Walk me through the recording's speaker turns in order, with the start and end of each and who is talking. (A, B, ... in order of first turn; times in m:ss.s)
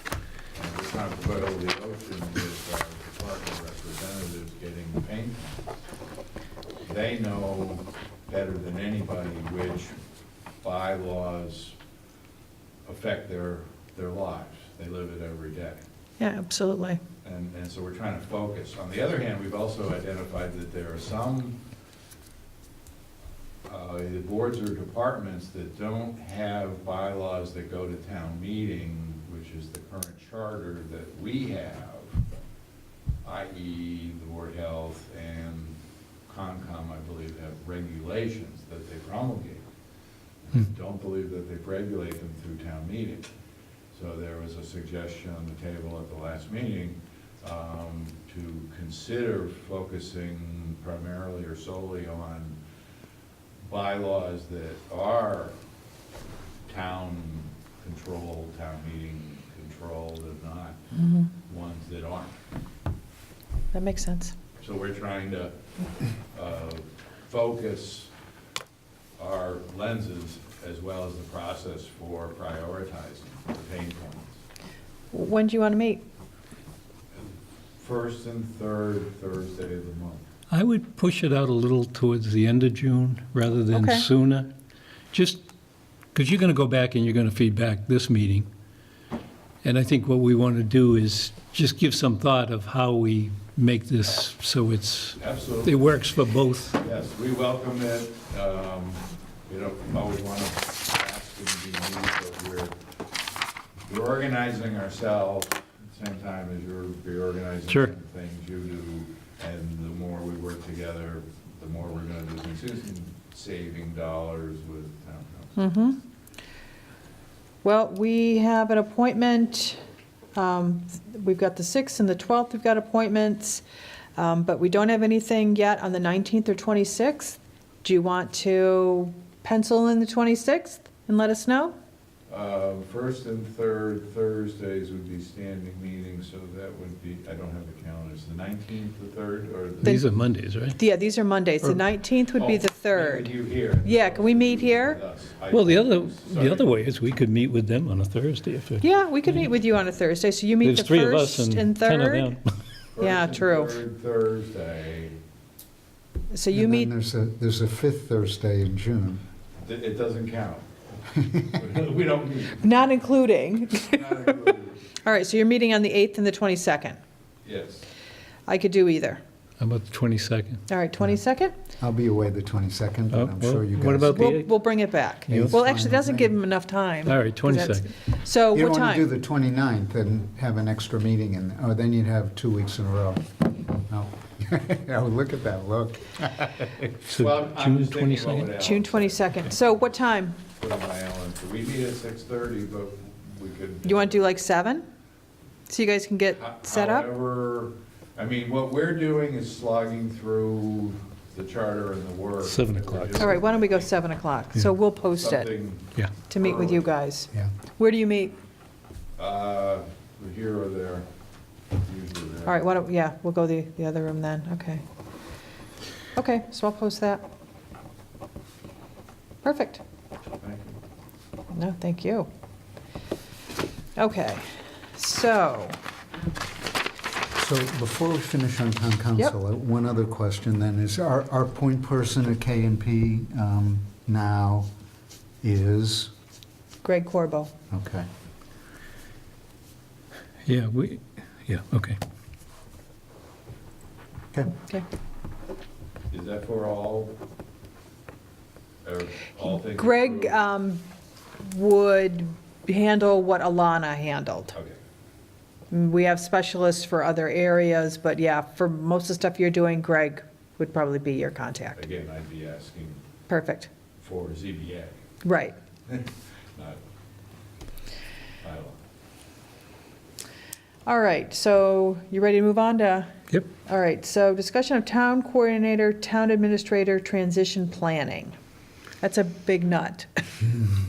0:00.6-0:05.6 A
0:06.8-0:10.0 A
0:10.6-0:11.8 A
0:12.9-0:15.8 A
0:16.2-0:17.0 B
0:17.2-0:21.6 A
0:23.6-0:32.2 A
0:33.2-0:39.6 A
0:40.4-0:43.3 A
0:43.9-0:52.6 A
0:53.6-0:55.6 A
0:56.7-1:00.8 A
1:00.9-1:01.3 B
1:01.4-1:02.4 A
1:03.7-1:04.4 B
1:04.6-1:05.6 A
1:06.2-1:08.1 A
1:09.2-1:14.4 A
1:15.1-1:16.0 B
1:17.8-1:20.2 A
1:20.5-1:24.5 C
1:23.7-1:24.1 B
1:25.1-1:25.4 C
1:26.1-1:28.5 C
1:29.6-1:36.8 C
1:35.2-1:36.0 A
1:36.8-1:42.7 A
1:43.8-1:55.6 A
1:55.6-1:56.0 B
1:57.6-1:59.8 B
2:00.4-2:03.6 B
2:04.2-2:11.8 B
2:12.3-2:20.0 A
2:19.8-2:20.8 C
2:20.8-2:23.3 B
2:22.4-2:26.8 A
2:23.8-2:25.0 B
2:25.5-2:29.5 C
2:28.8-2:32.4 B
2:30.6-2:32.4 C
2:33.0-2:35.2 A
2:33.0-2:33.8 B
2:36.3-2:36.9 B
2:36.5-2:39.2 D
2:39.6-2:42.7 A
2:42.6-2:44.4 B
2:43.9-2:44.8 A
2:45.0-2:47.0 B
2:47.4-2:47.9 A
2:48.5-2:49.2 B
2:49.6-2:50.6 C
2:50.7-2:51.6 B
2:51.8-2:54.4 D
2:53.1-2:54.6 C
2:54.1-2:59.0 B
2:55.3-2:56.4 D
2:57.1-2:57.9 C
2:58.5-3:07.0 D
3:07.1-3:08.6 C
3:07.1-3:09.6 A
3:08.5-3:10.4 B
3:10.5-3:14.3 A
3:13.8-3:14.8 B
3:15.7-3:17.1 B
3:16.4-3:24.0 A
3:22.4-3:23.3 C
3:23.2-3:25.5 B
3:25.2-3:26.9 A
3:26.3-3:28.4 B
3:29.2-3:31.1 A
3:31.8-3:32.6 A
3:32.5-3:34.8 B
3:36.2-3:37.2 B
3:39.4-3:39.8 B
3:40.4-3:40.8 A
3:41.5-3:42.3 B
3:44.0-3:45.8 B
3:47.4-3:54.7 D
3:55.4-3:56.1 D
3:56.8-3:57.5 B
3:57.7-3:58.1 D
4:00.5-4:02.0 C
4:04.5-4:04.8 B
4:06.1-4:07.2 A
4:08.8-4:10.4 A
4:09.6-4:10.8 B
4:11.4-4:14.5 B
4:15.7-4:21.8 B
4:21.8-4:23.0 A
4:23.3-4:23.7 B
4:24.0-4:25.0 A
4:25.2-4:25.6 B
4:25.9-4:26.8 A
4:28.4-4:28.8 A
4:30.9-4:38.4 B
4:39.0-4:40.6 B